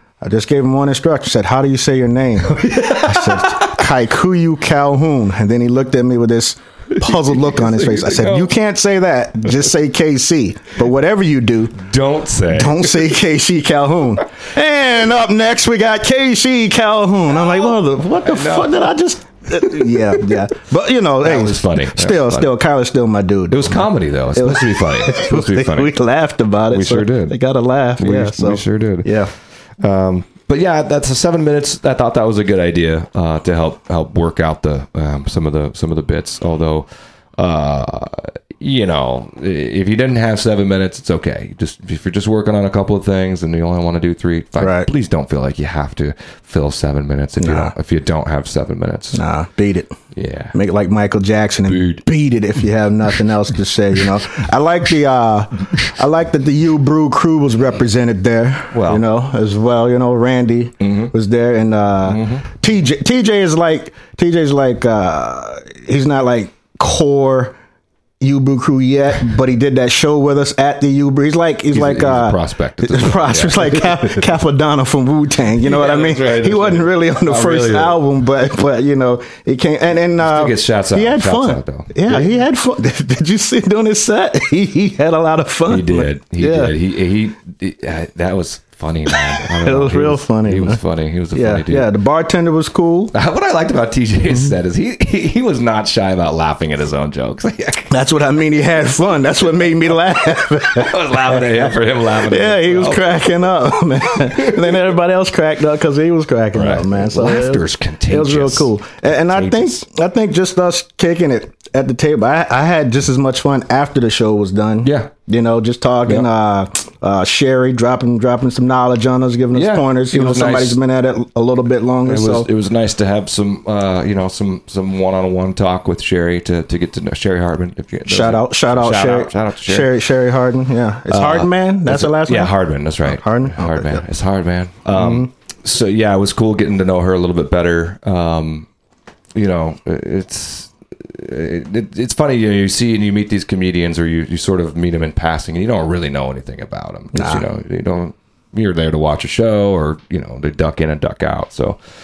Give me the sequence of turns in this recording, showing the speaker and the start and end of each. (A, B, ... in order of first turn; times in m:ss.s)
0:00.2-0:11.8 A
0:02.6-0:03.8 B
0:06.9-0:08.5 B
0:11.8-0:13.0 B
0:12.5-0:29.3 A
0:18.2-0:18.8 B
0:19.8-0:20.3 B
0:21.2-0:22.5 B
0:23.5-0:25.9 B
0:26.7-0:27.4 B
0:28.0-0:29.2 B
0:29.8-0:49.2 B
0:44.6-0:44.9 A
0:47.4-0:47.7 A
0:49.1-0:49.9 A
0:50.1-0:50.6 B
0:50.5-1:07.6 A
0:51.6-0:52.0 B
0:58.7-0:59.0 B
1:00.8-1:01.1 B
1:02.0-1:02.4 B
1:08.2-1:26.7 A
1:11.7-1:14.2 B
1:15.6-1:18.0 B
1:20.2-1:22.3 B
1:25.7-1:31.9 B
1:29.1-1:30.8 A
1:31.3-1:33.1 A
1:33.1-1:37.9 B
1:37.9-2:02.5 A
1:40.7-1:43.0 B
1:46.5-1:48.7 B
1:49.3-1:49.8 B
1:54.8-1:55.1 B
1:59.5-2:00.8 B
2:02.0-2:09.9 B
2:08.1-2:12.5 A
2:11.1-2:18.7 B
2:13.0-2:14.0 A
2:14.9-2:15.3 A
2:19.3-2:31.8 B
2:27.1-2:27.4 A